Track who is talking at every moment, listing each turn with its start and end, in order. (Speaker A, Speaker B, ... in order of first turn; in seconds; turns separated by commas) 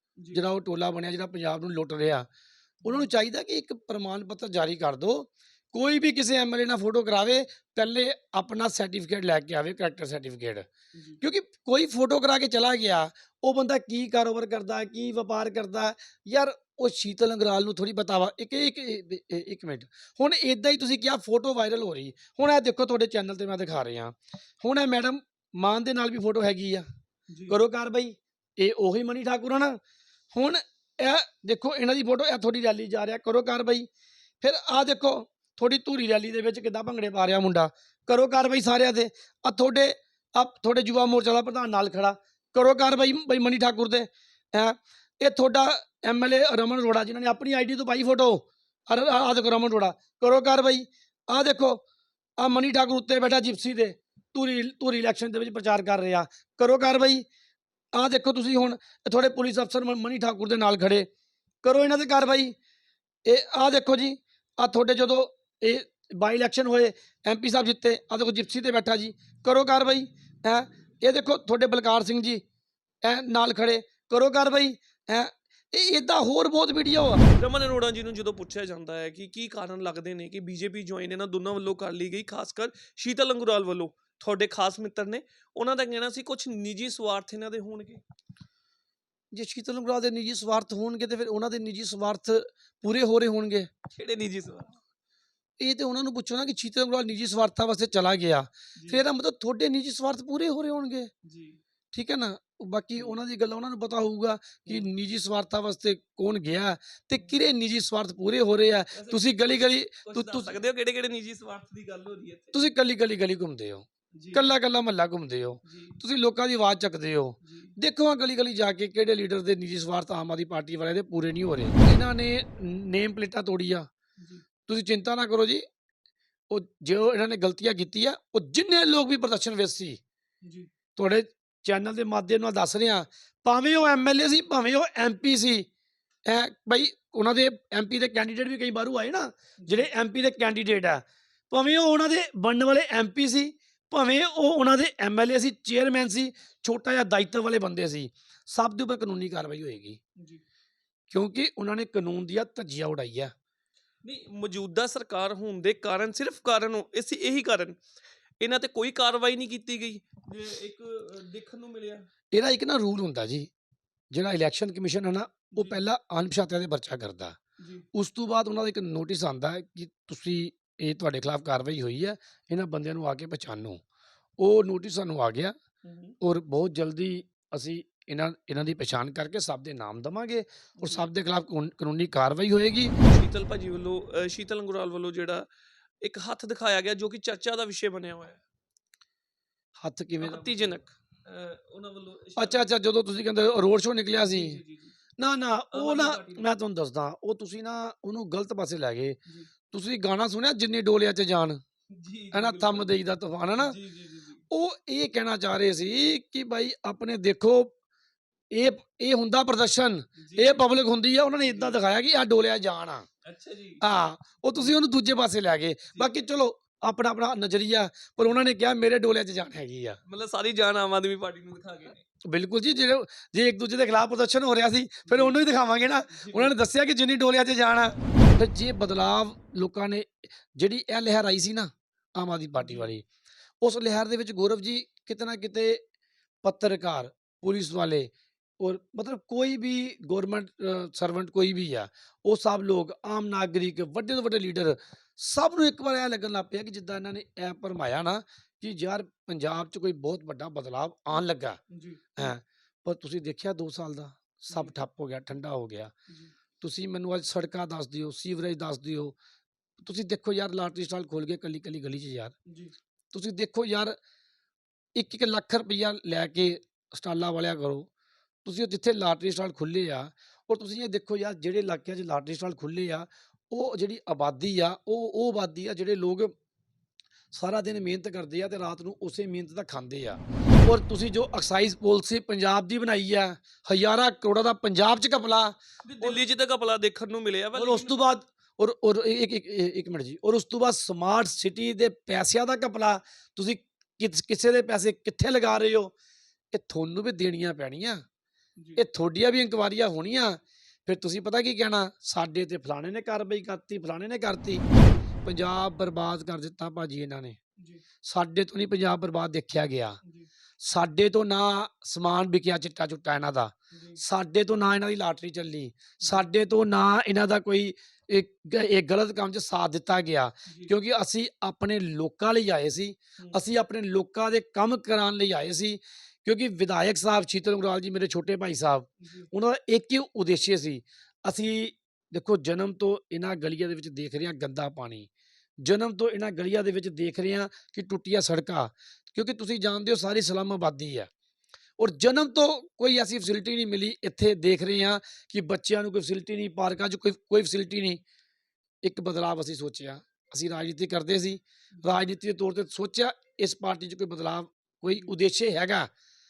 Speaker A: 0.3-2.3, Speaker A: 2.8-10.7, Speaker B: 10.9-11.2, Speaker A: 11.2-26.9, Speaker B: 27.3-27.6, Speaker A: 27.5-29.8, Speaker A: 30.3-33.9, Speaker A: 34.4-51.8, Speaker A: 52.4-57.2, Speaker A: 57.9-61.1, Speaker A: 61.6-62.5, Speaker A: 63.2-72.4, Speaker A: 73.0-77.2, Speaker B: 77.3-88.0, Speaker A: 89.3-93.7, Speaker B: 93.9-94.8, Speaker A: 95.6-101.1, Speaker B: 98.8-99.0, Speaker B: 101.2-101.6, Speaker A: 101.9-110.6, Speaker B: 108.9-112.6, Speaker A: 112.5-123.9, Speaker B: 114.1-114.4, Speaker B: 115.6-116.0, Speaker B: 117.4-117.7, Speaker B: 124.2-124.4, Speaker A: 124.7-125.6, Speaker A: 126.5-130.0, Speaker B: 130.4-130.7, Speaker A: 130.9-135.7, Speaker A: 136.2-150.0, Speaker B: 139.6-139.9, Speaker B: 150.2-150.4, Speaker A: 151.1-153.3, Speaker B: 154.0-157.8, Speaker B: 158.4-162.1, Speaker A: 162.3-163.5, Speaker A: 164.1-167.4, Speaker B: 165.5-165.8, Speaker B: 167.6-167.8, Speaker A: 167.9-173.8, Speaker A: 174.4-175.6, Speaker B: 175.8-176.1, Speaker A: 176.2-182.9, Speaker B: 180.8-181.0, Speaker B: 183.0-185.5, Speaker B: 186.0-188.4, Speaker A: 189.8-190.8, Speaker B: 190.2-192.7, Speaker A: 192.4-194.6, Speaker B: 194.2-194.9, Speaker A: 195.2-199.2, Speaker B: 195.7-196.4, Speaker B: 199.2-199.5, Speaker A: 199.7-201.6, Speaker B: 201.9-202.9, Speaker A: 202.3-203.8, Speaker B: 203.6-204.4, Speaker A: 204.5-207.7, Speaker A: 208.5-213.1, Speaker B: 210.2-210.6, Speaker B: 211.4-211.8, Speaker B: 213.2-213.8, Speaker A: 213.8-220.0, Speaker B: 220.0-222.0, Speaker A: 222.2-233.0, Speaker B: 225.1-225.4, Speaker B: 226.1-226.5, Speaker B: 232.6-232.9, Speaker A: 233.6-235.8, Speaker A: 236.4-251.6, Speaker B: 251.7-252.3, Speaker A: 252.2-255.9, Speaker B: 254.5-254.8, Speaker A: 256.6-259.1, Speaker A: 259.8-262.3, Speaker B: 262.5-262.7, Speaker A: 263.1-264.0, Speaker A: 264.9-267.9, Speaker A: 268.4-276.3, Speaker A: 277.3-286.2, Speaker B: 285.9-288.0, Speaker A: 287.5-295.9, Speaker A: 296.5-298.0, Speaker A: 298.8-304.7, Speaker A: 305.2-307.4, Speaker B: 307.6-307.8, Speaker A: 308.0-310.0, Speaker B: 310.0-310.3, Speaker A: 310.6-341.1, Speaker B: 313.7-314.0, Speaker B: 320.4-320.7, Speaker B: 329.0-329.3, Speaker A: 341.8-348.0, Speaker A: 348.8-355.9